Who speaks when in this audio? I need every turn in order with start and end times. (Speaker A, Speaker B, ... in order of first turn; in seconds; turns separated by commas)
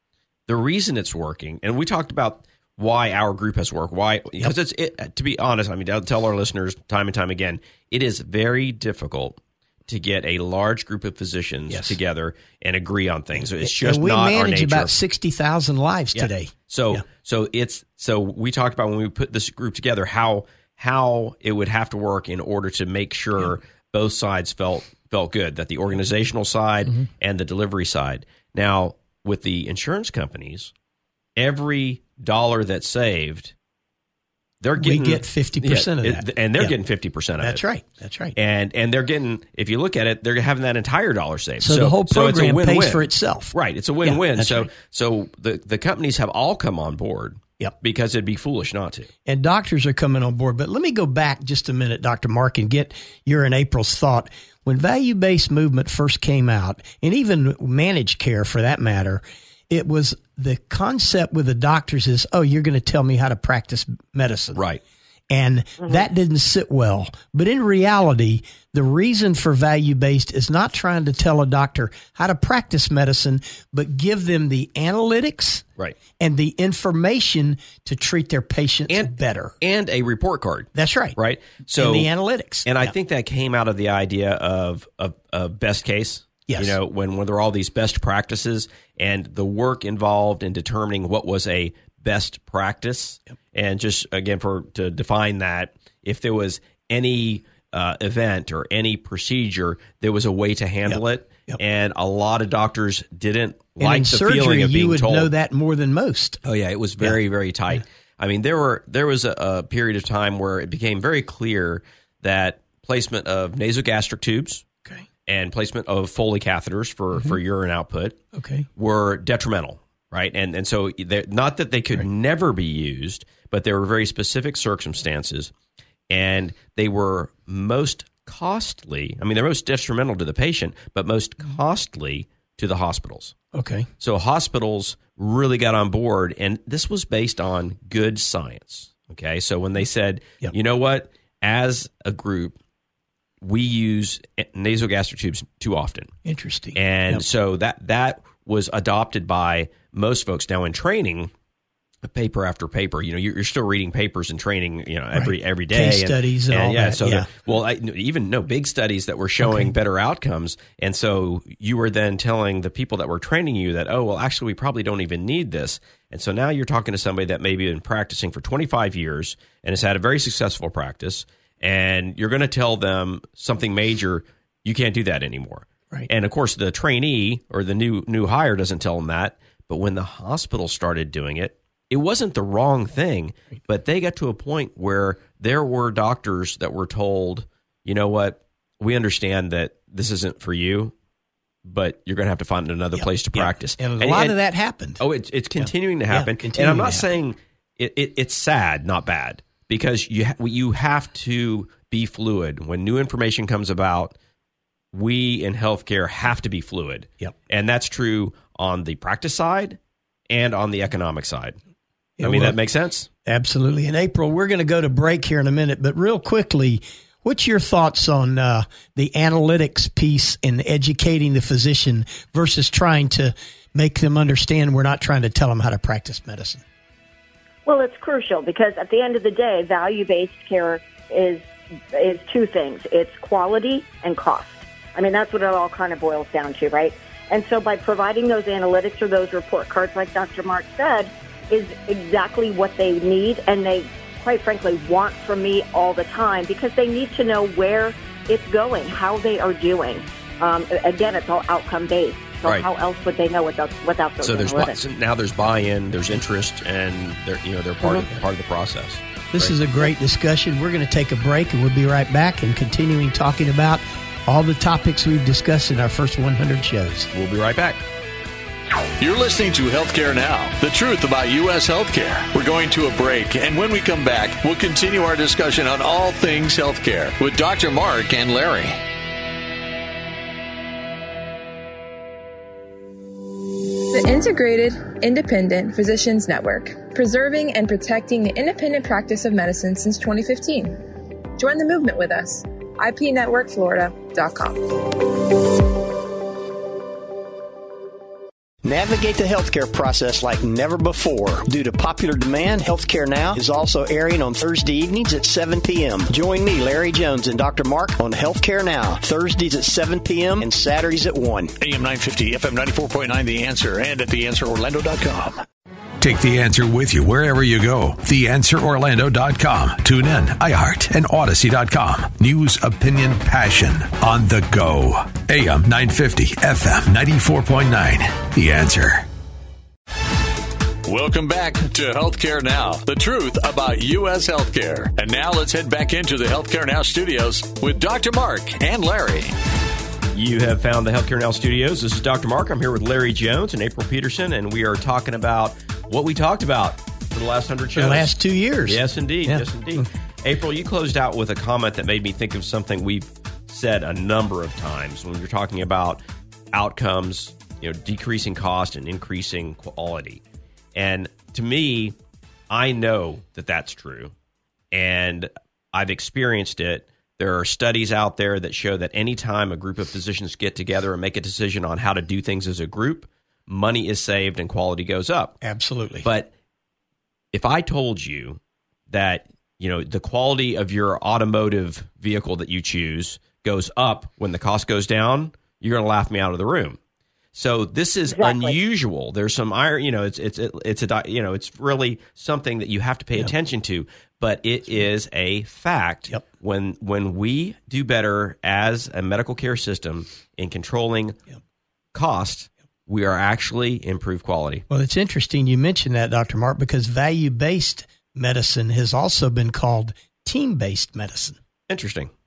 Speaker A: 0.5-14.9, Speaker B: 11.7-11.9, Speaker B: 13.4-17.0, Speaker A: 16.1-30.7, Speaker A: 31.4-33.5, Speaker A: 34.6-37.6, Speaker B: 34.8-36.7, Speaker B: 37.4-38.4, Speaker A: 38.4-49.1, Speaker B: 41.6-44.7, Speaker B: 49.2-64.6, Speaker A: 64.5-64.8, Speaker B: 65.3-75.6, Speaker B: 76.2-79.5, Speaker A: 78.9-82.1, Speaker B: 80.7-81.2, Speaker B: 81.7-82.9, Speaker A: 82.6-105.3, Speaker B: 86.5-86.8, Speaker B: 100.9-101.6, Speaker B: 103.8-106.4, Speaker A: 106.4-114.7, Speaker A: 115.2-118.2, Speaker B: 118.3-118.7, Speaker A: 118.8-125.5, Speaker A: 126.1-133.3, Speaker B: 133.5-133.9, Speaker A: 134.0-142.6, Speaker A: 143.4-146.1, Speaker B: 146.2-147.2, Speaker A: 146.7-151.3, Speaker A: 152.0-190.9, Speaker B: 155.1-157.3, Speaker B: 159.4-159.7, Speaker A: 191.6-194.4, Speaker B: 192.9-195.0, Speaker A: 195.0-204.2, Speaker B: 195.6-197.1, Speaker A: 204.9-211.6, Speaker B: 212.2-212.6, Speaker A: 212.2-213.1, Speaker B: 213.2-226.6, Speaker C: 227.7-254.8, Speaker A: 254.2-259.5, Speaker B: 257.8-258.2, Speaker B: 259.3-267.1, Speaker A: 267.1-267.8, Speaker D: 269.0-278.8, Speaker E: 283.9-290.8, Speaker E: 291.4-295.1, Speaker B: 298.6-311.5, Speaker D: 311.6-315.4, Speaker F: 316.0-329.1, Speaker D: 330.8-339.4, Speaker A: 340.1-348.1, Speaker B: 347.8-349.8, Speaker A: 348.6-356.0, Speaker A: 356.5-360.2, Speaker A: 360.7-361.9, Speaker A: 362.5-364.1, Speaker A: 364.7-375.4, Speaker B: 375.4-376.1, Speaker A: 376.0-376.3, Speaker A: 377.3-386.8, Speaker A: 387.3-401.2, Speaker C: 388.1-388.5, Speaker A: 401.9-404.6, Speaker B: 404.7-411.4, Speaker A: 411.7-412.1